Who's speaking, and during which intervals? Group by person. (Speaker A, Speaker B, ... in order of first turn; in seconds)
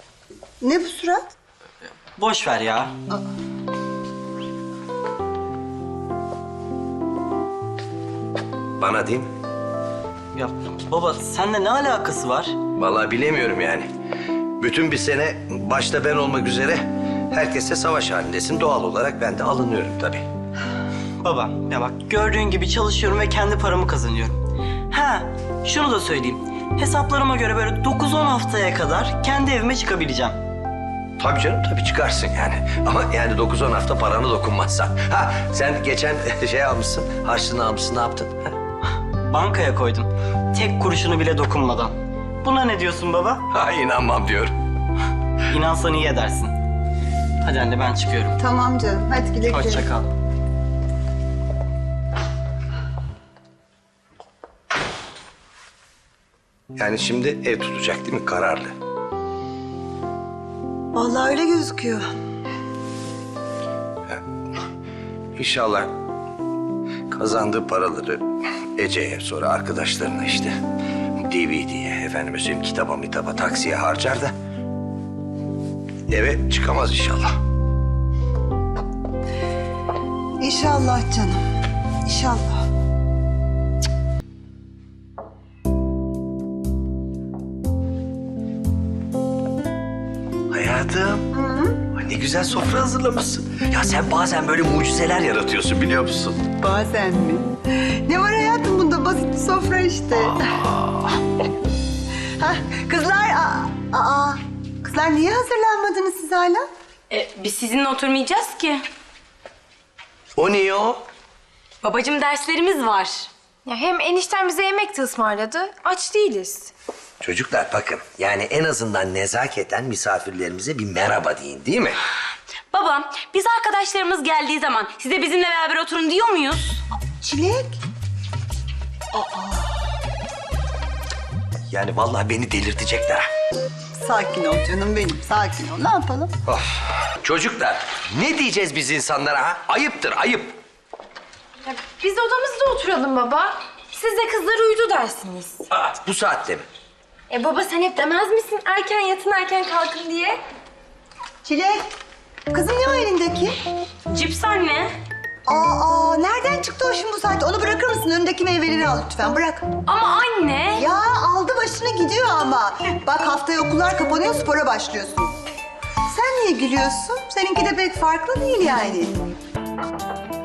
Speaker A: 0.6-1.2, 48.4-49.8, 60.9-62.0, 80.4-81.4, 82.0-82.5, 91.3-91.8, 96.6-97.5, 98.0-100.5, 102.4-106.6, 127.2-127.8, 129.1-129.7, 134.0-136.3, 151.4-151.8, 152.5-153.6, 155.5-159.6, 160.8-165.3, 166.1-169.1
Speaker B: 2.1-2.9, 10.3-12.6, 21.2-30.4, 39.2-43.4, 45.5-46.5, 47.4-48.4, 49.5-50.1
Speaker C: 8.8-9.3, 12.8-13.9, 14.6-20.2, 31.2-38.3, 43.5-44.5, 56.8-58.7, 65.3-65.9, 67.1-68.2, 68.8-70.5, 71.2-74.3, 76.1-77.3, 90.5-91.3, 91.9-96.4, 110.4-111.0, 117.2-122.0, 131.7-133.2, 137.2-140.6, 145.7-146.7
Speaker D: 107.1-108.8, 111.8-113.3, 122.7-126.8, 154.1-154.9, 159.9-160.9
Speaker E: 113.7-116.7, 141.7-145.6, 147.3-150.4